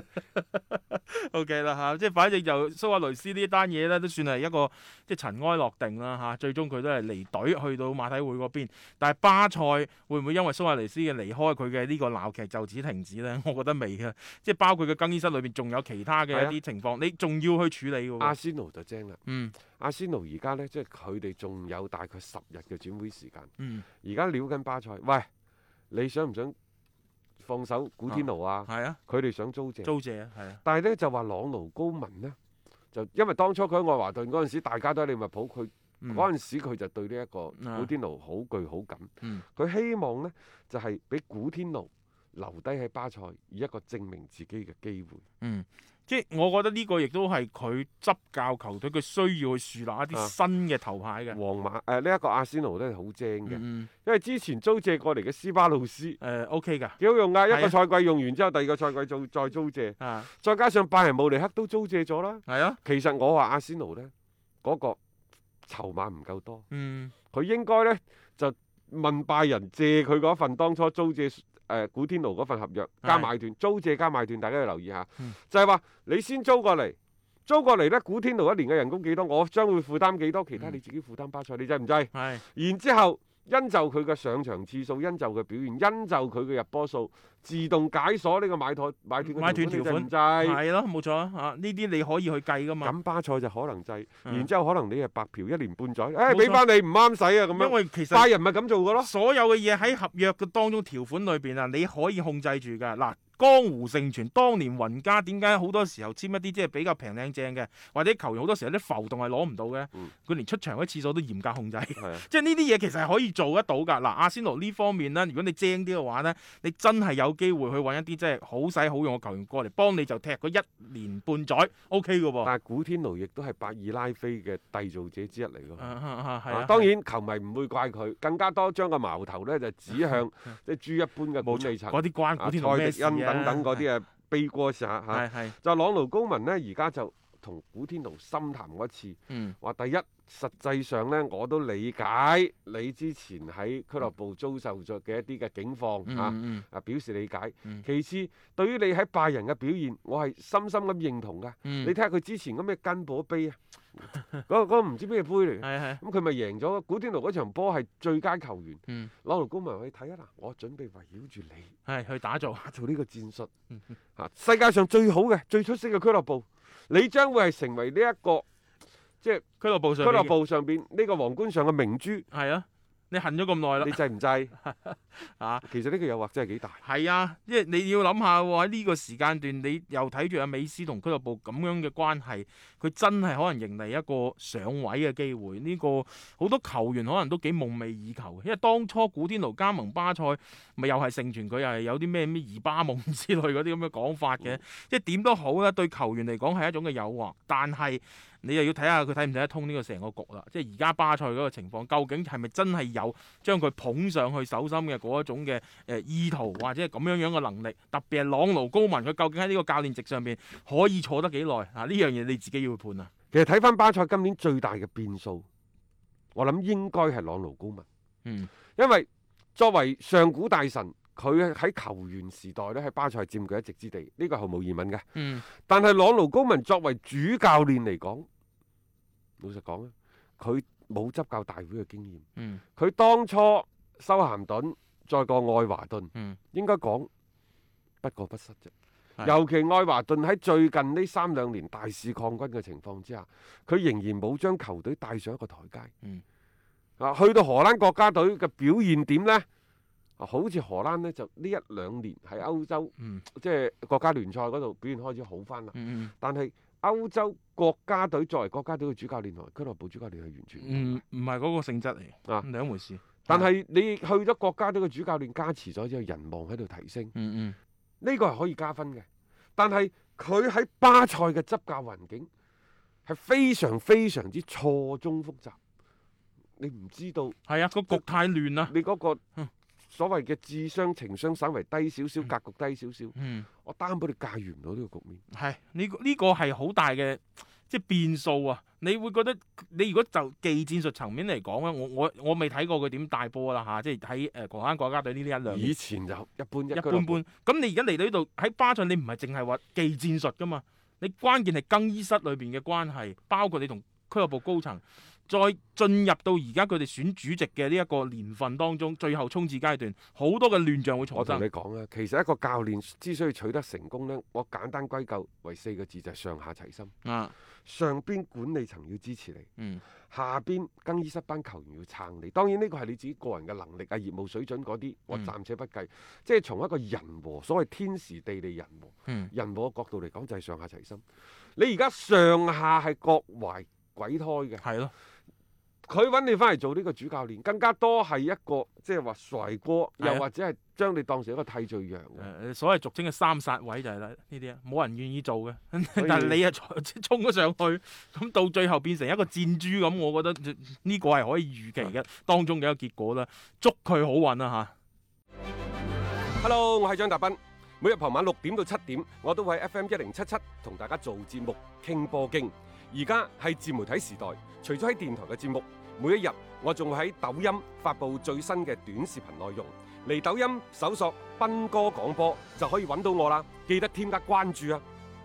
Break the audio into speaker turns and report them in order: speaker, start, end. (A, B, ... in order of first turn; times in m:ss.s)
0:00.3-0:18.4 A
0:16.3-0:16.6 B
0:18.2-0:23.5 B
0:19.2-0:19.6 A
0:23.6-0:23.8 A
0:24.0-0:25.3 B
0:25.9-0:26.5 B
0:27.4-0:29.9 B
0:28.1-0:29.0 A
0:29.8-0:30.6 A
0:30.6-0:32.4 B
0:32.9-0:45.2 B
0:36.0-0:36.3 A
0:37.6-0:37.9 A
0:45.4-0:51.4 A
0:51.3-0:56.2 B
0:53.4-0:53.9 A
0:56.2-0:57.8 A
0:57.0-1:04.1 B
1:00.0-1:00.3 A
1:02.5-1:02.8 A
1:04.6-1:05.0 B
1:05.6-1:06.6 B
1:06.7-1:07.1 A
1:07.3-1:30.6 B
1:13.0-1:13.3 A
1:22.1-1:22.4 A
1:29.2-1:32.9 A
1:32.8-1:39.1 B
1:36.2-1:36.6 A
1:37.5-1:38.3 A
1:39.0-2:02.5 A
1:52.0-1:52.3 B
2:02.4-2:05.9 B
2:05.8-2:06.9 A
2:06.5-2:41.7 B
2:11.4-2:13.8 A
2:15.1-2:15.6 A
2:19.3-2:19.6 A
2:26.0-2:26.6 A
2:31.6-2:31.9 A
2:35.6-2:36.0 A
2:41.8-2:42.7 A
2:42.6-2:43.5 B
2:44.2-2:48.4 B
2:49.6-2:50.3 A
2:50.0-2:52.2 B
2:52.3-2:54.0 A
2:53.8-2:54.5 B
2:54.6-2:55.6 A
2:55.6-2:56.8 B
2:56.8-3:33.1 A
3:33.3-3:35.4 B
3:36.3-3:37.8 B
3:38.2-3:38.5 A
3:38.8-3:48.2 B
3:45.1-3:45.4 A
3:49.4-3:52.2 B
3:52.4-3:52.6 A
3:52.8-3:57.1 B
3:56.1-3:56.4 A
3:58.0-3:58.7 B
3:59.2-4:05.9 B
4:07.0-4:09.4 B
4:10.2-4:21.0 B
4:13.0-4:13.2 A
4:15.7-4:16.1 A
4:20.6-4:23.5 A
4:23.2-4:27.1 B
4:27.1-4:27.6 A
4:28.0-4:29.0 B
4:29.6-4:32.3 B
4:33.0-4:35.6 B
4:36.6-4:37.4 B
4:37.5-4:38.7 A
4:38.7-4:39.2 B
4:39.9-4:45.2 B
4:43.1-4:43.5 A
4:45.3-4:55.7 A
4:55.4-4:57.2 B
4:56.7-5:11.4 A
5:11.1-5:16.9 B
5:17.0-5:17.3 A
5:17.6-5:19.5 B
5:19.6-5:19.8 A
5:20.1-5:31.0 B
5:29.1-5:29.3 A
5:31.6-5:34.6 B
5:34.6-5:34.9 A
5:35.8-5:42.3 B
5:40.0-5:40.3 A
5:42.2-5:54.7 A
5:46.0-5:46.4 B
5:56.4-6:14.8 B